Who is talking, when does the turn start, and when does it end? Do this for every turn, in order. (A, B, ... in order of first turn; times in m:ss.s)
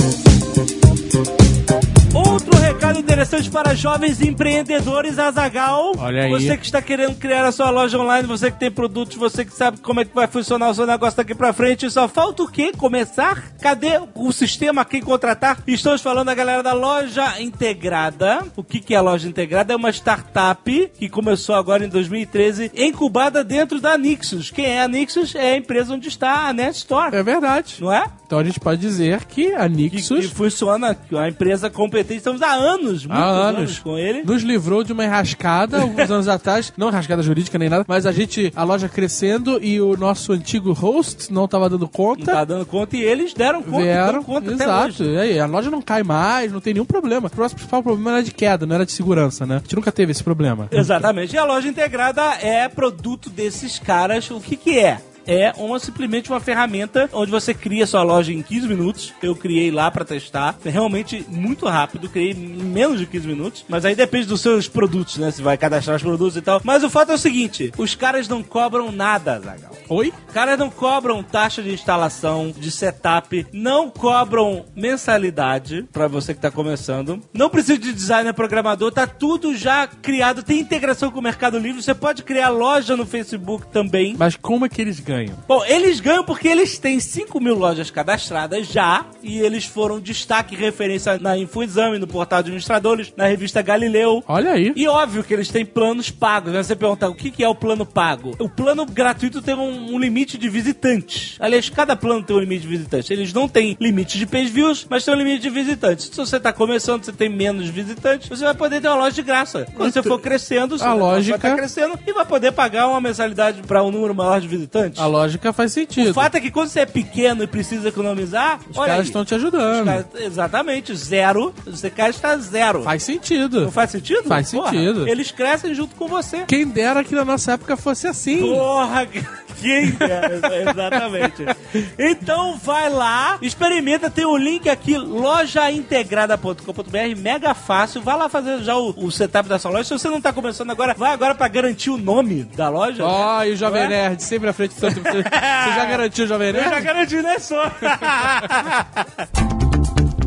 0:02.1-0:27.2 A
0:06.0-0:06.6 B
0:27.1-0:30.3 B
0:27.8-0:28.1 A
0:29.9-0:34.3 A
0:33.1-0:42.4 B
0:35.8-0:36.1 A
0:42.2-0:45.1 A
0:43.6-0:51.0 B
0:50.7-1:09.8 A
1:09.9-1:10.2 B
1:10.3-1:24.2 A
1:24.2-1:25.4 B
1:25.5-1:55.1 A
1:34.3-1:34.8 B
1:49.8-1:50.2 B
1:50.8-1:51.6 B
1:55.0-1:56.3 B
1:56.0-2:02.9 A
1:58.7-2:00.0 B
2:02.8-2:03.7 B
2:03.6-2:06.5 A
2:04.3-2:05.1 B
2:06.5-2:08.6 B
2:08.4-2:24.0 A
2:09.8-2:11.3 B
2:23.0-2:26.9 B
2:24.8-2:29.3 A